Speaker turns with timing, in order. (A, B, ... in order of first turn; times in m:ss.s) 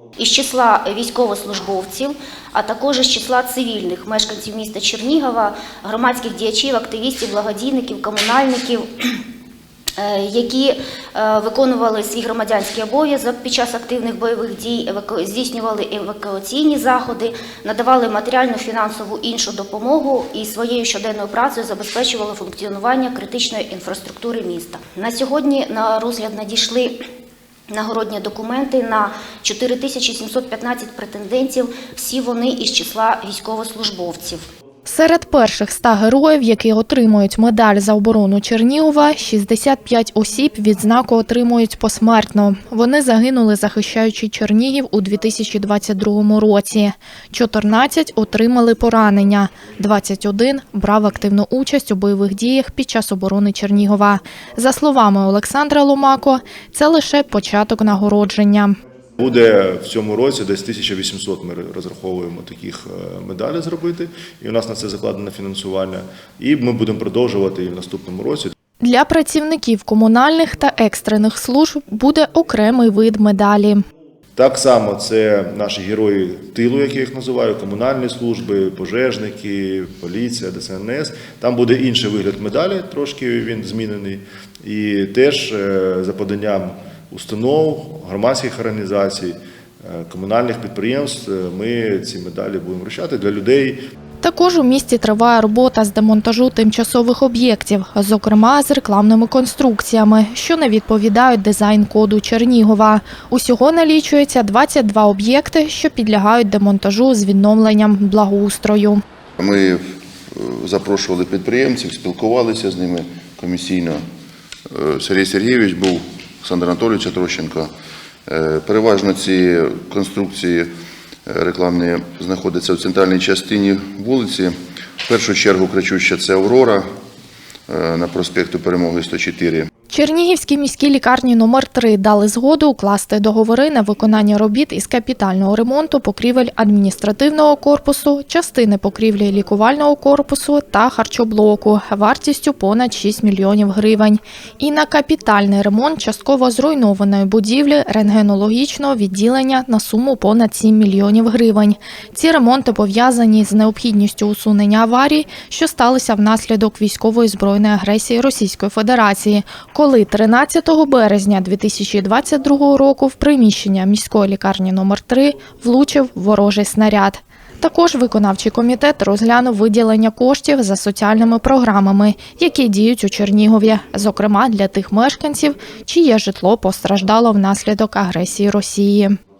0:00.2-0:09.1 A
0:10.0-0:27.0 A
0:27.7-0:34.4 A
0:34.9-0:58.8 B
0:59.2-1:08.5 C
1:08.8-1:13.8 B
1:14.4-1:33.8 C
1:34.2-1:49.0 B
1:49.4-1:54.0 D
1:54.7-1:57.7 D
1:58.3-2:00.7 D
2:01.3-2:06.8 D
2:07.7-2:09.7 D
2:09.9-2:59.2 B